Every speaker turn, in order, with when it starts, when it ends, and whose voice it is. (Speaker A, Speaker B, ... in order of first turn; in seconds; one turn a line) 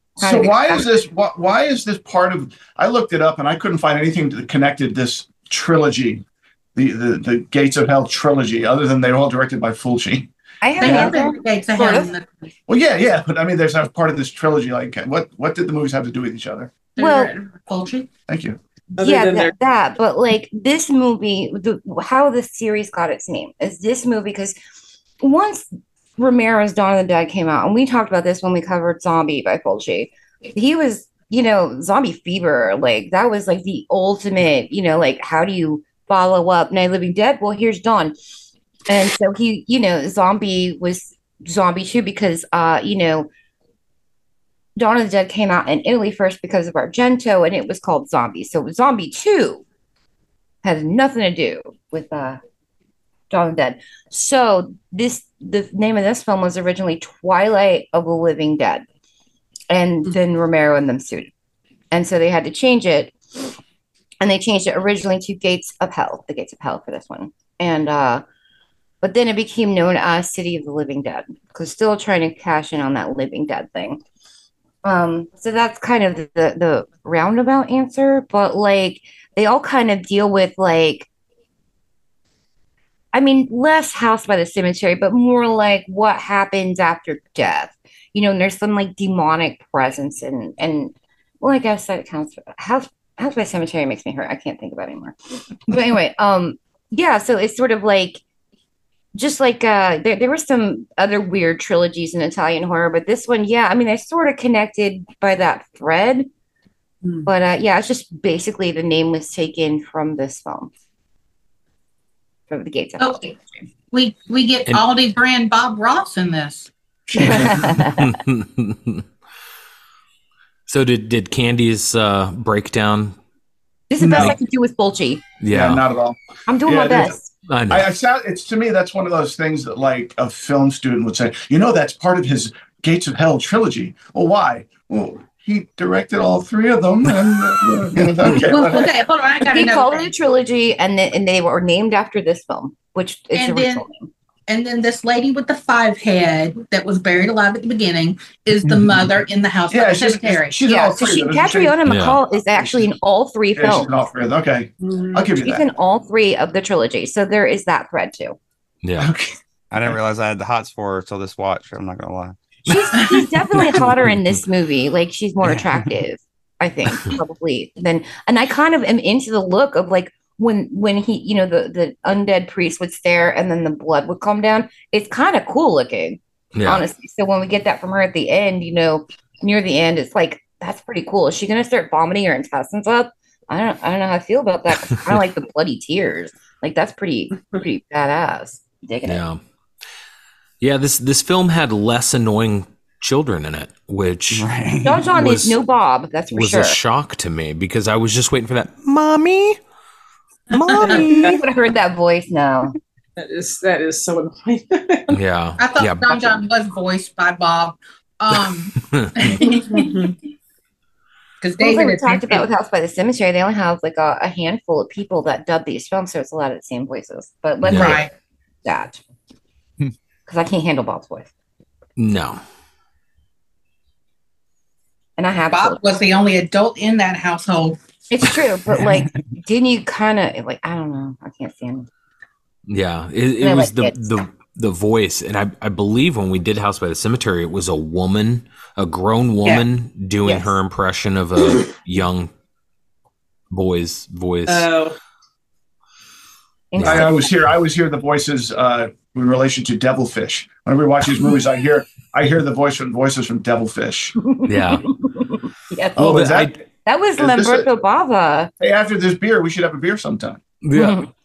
Speaker A: 0.2-6.2
Speaker B: 0.2-0.9
Speaker A: 6.8-10.3
Speaker B: 10.6-12.1
Speaker C: 10.8-12.5
Speaker A: 10.8-11.1
Speaker A: 12.7-16.7
Speaker C: 17.0-18.1
Speaker B: 17.0-17.3
Speaker A: 18.3-18.6
Speaker D: 19.0-19.5
Speaker B: 19.0-24.5
Speaker B: 25.2-38.1
Speaker B: 38.9-43.3
Speaker B: 44.8-49.6
Speaker B: 50.6-52.4
Speaker B: 53.3-58.8
Speaker B: 59.7-61.3
Speaker B: 61.9-63.1
Speaker B: 64.2-68.2
Speaker B: 69.0-74.0
Speaker B: 74.8-81.1
Speaker B: 83.1-95.1
Speaker B: 95.7-98.2
Speaker B: 99.1-106.3
Speaker B: 107.2-110.7
Speaker B: 112.5-113.6
Speaker C: 113.0-113.3
Speaker C: 113.9-116.7
Speaker A: 117.1-117.8
Speaker B: 117.2-118.1
Speaker E: 117.8-119.0
Speaker E: 120.7-123.2
Speaker B: 123.9-125.2
Speaker A: 124.0-124.3
Speaker E: 125.4-125.8
Speaker A: 125.5-127.2
Speaker B: 126.5-127.3
Speaker E: 127.5-127.9
Speaker A: 127.7-138.9
Speaker C: 138.4-140.1
Speaker B: 139.5-144.1
Speaker C: 143.3-143.8
Speaker C: 144.5-150.6
Speaker A: 148.7-149.0
Speaker A: 149.7-151.8
Speaker B: 150.7-153.9
Speaker E: 151.9-152.2
Speaker A: 152.6-152.9
Speaker A: 153.6-155.6
Speaker D: 154.8-155.3
Speaker B: 155.4-158.4
Speaker E: 158.8-159.1
Speaker A: 159.0-159.3
Speaker F: 159.7-162.4
Speaker B: 162.7-189.2
Speaker E: 176.5-176.8
Speaker E: 189.0-189.4
Speaker E: 190.6-195.6
Speaker F: 194.3-194.9
Speaker B: 194.8-196.8
Speaker E: 196.3-199.6
Speaker E: 200.5-201.3
Speaker B: 200.8-202.7
Speaker D: 200.8-201.3
Speaker D: 203.2-205.2
Speaker E: 205.1-206.4
Speaker C: 205.6-210.1
Speaker E: 208.8-209.3
Speaker D: 209.7-210.1
Speaker C: 211.4-212.5
Speaker B: 211.6-218.0
Speaker E: 217.6-218.0
Speaker C: 217.7-218.1
Speaker B: 218.6-219.0
Speaker B: 220.3-221.3
Speaker E: 222.0-222.4
Speaker B: 225.2-225.8
Speaker C: 225.5-227.8
Speaker B: 228.1-231.9
Speaker E: 232.7-242.3
Speaker B: 233.4-234.3
Speaker B: 240.2-240.5
Speaker E: 243.5-244.7
Speaker D: 244.5-244.9
Speaker B: 246.7-247.2
Speaker E: 246.8-247.1
Speaker A: 246.8-254.1
Speaker B: 254.2-256.3
Speaker E: 254.4-254.8
Speaker A: 256.0-256.6
Speaker E: 256.0-256.5
Speaker B: 256.8-258.5
Speaker A: 257.2-257.7
Speaker A: 258.6-260.4
Speaker E: 260.6-261.0
Speaker B: 260.7-261.1